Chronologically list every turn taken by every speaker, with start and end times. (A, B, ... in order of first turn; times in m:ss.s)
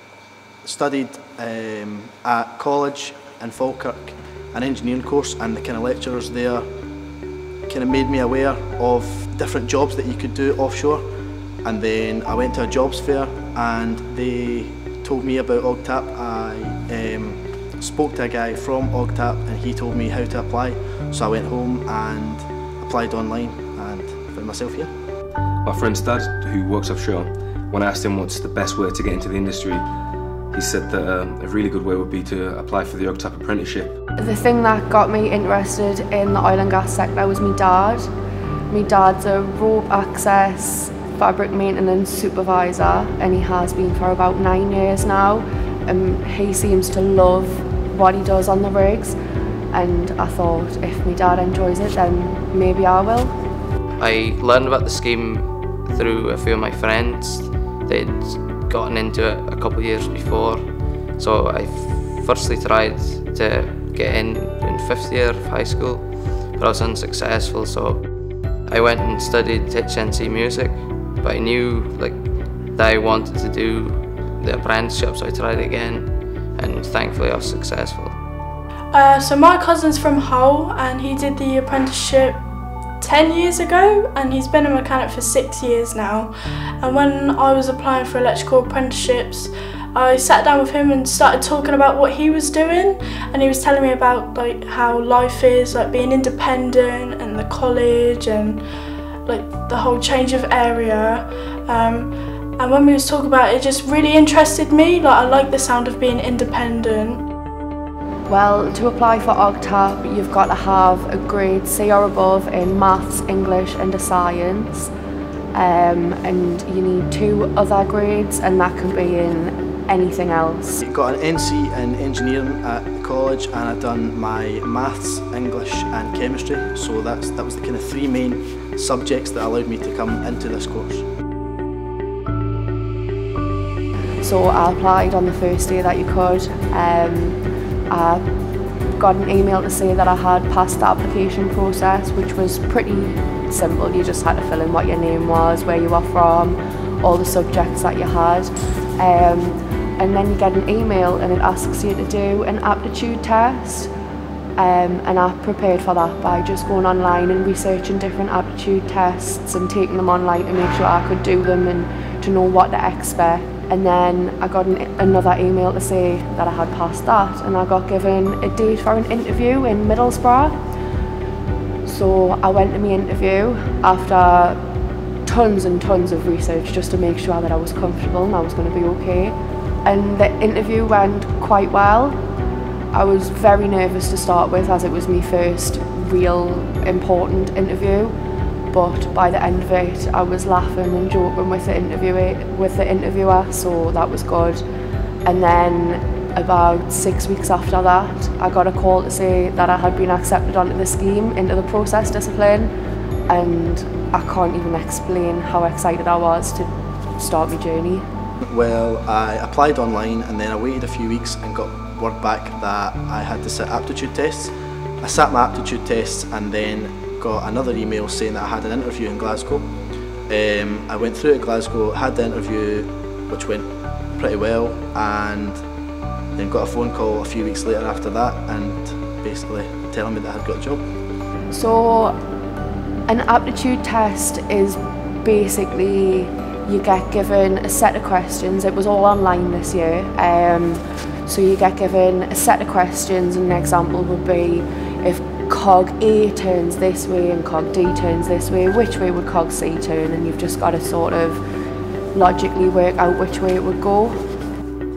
0:00.6-0:06.7 A
0:07.7-0:11.0 A
0:11.6-0:24.9 A
0:25.6-0:29.9 B
0:30.5-0:34.0 B
0:34.2-0:38.1 C
0:38.7-0:49.2 C
0:49.7-0:53.4 C
0:54.0-1:08.1 D
1:08.6-1:18.2 D
1:18.9-1:22.4 E
1:23.0-1:38.6 E
1:39.3-1:47.2 E
1:48.3-1:54.9 C
1:55.5-2:00.8 C
2:00.8-2:11.0 A
2:14.2-2:18.2 C
2:19.0-2:33.9 C
2:34.6-2:50.6 C
2:51.8-2:54.6 C
2:55.2-3:02.2 C
3:02.9-3:08.2 C
3:08.7-3:14.6 C
3:15.2-3:22.7 C
3:23.3-3:28.0 C
3:28.4-3:39.7 A
3:40.3-3:45.6 A
3:46.4-3:50.8 A
3:51.5-3:52.2 C
3:53.1-4:11.4 C
4:12.1-4:14.2 C